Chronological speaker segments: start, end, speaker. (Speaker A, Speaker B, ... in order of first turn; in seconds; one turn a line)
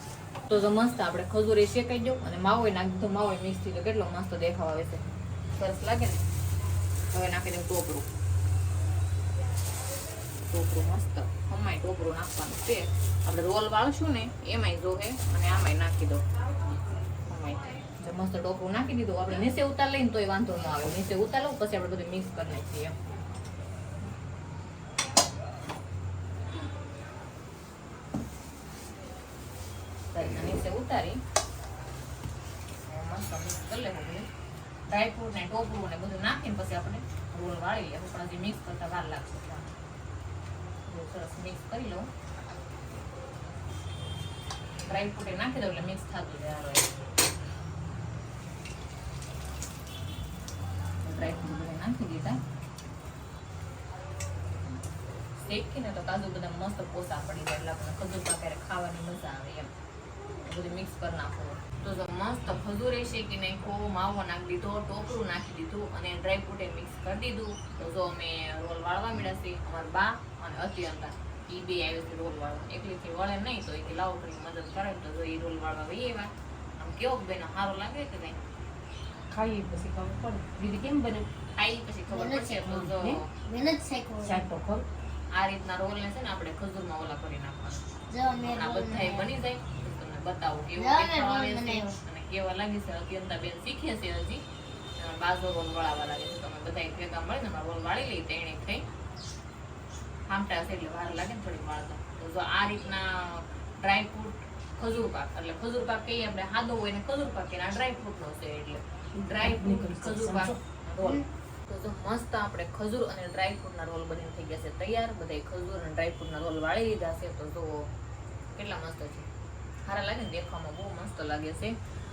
Speaker A: 0.5-5.0
Speaker A: 5.6-6.2
Speaker A: 7.1-8.1
Speaker A: 10.5-16.2
Speaker A: 17.3-23.0
Speaker A: 30.1-31.2
Speaker A: 32.8-34.3
Speaker A: 34.9-39.7
Speaker A: 40.9-42.1
Speaker A: 44.9-46.9
Speaker A: 51.0-52.4
Speaker A: 55.4-59.7
Speaker A: 60.5-78.4
Speaker B: 79.3-81.3
Speaker A: 81.6-83.3
Speaker C: 82.1-82.6
Speaker B: 82.5-83.2
Speaker C: 83.3-84.4
Speaker B: 84.2-84.9
Speaker A: 85.3-87.9
Speaker C: 88.1-89.3
Speaker A: 88.4-94.4
Speaker C: 90.8-92.0
Speaker A: 95.0-98.9
Speaker A: 100.3-117.9
Speaker B: 109.2-110.6
Speaker A: 118.5-119.3
Speaker A: 119.8-121.8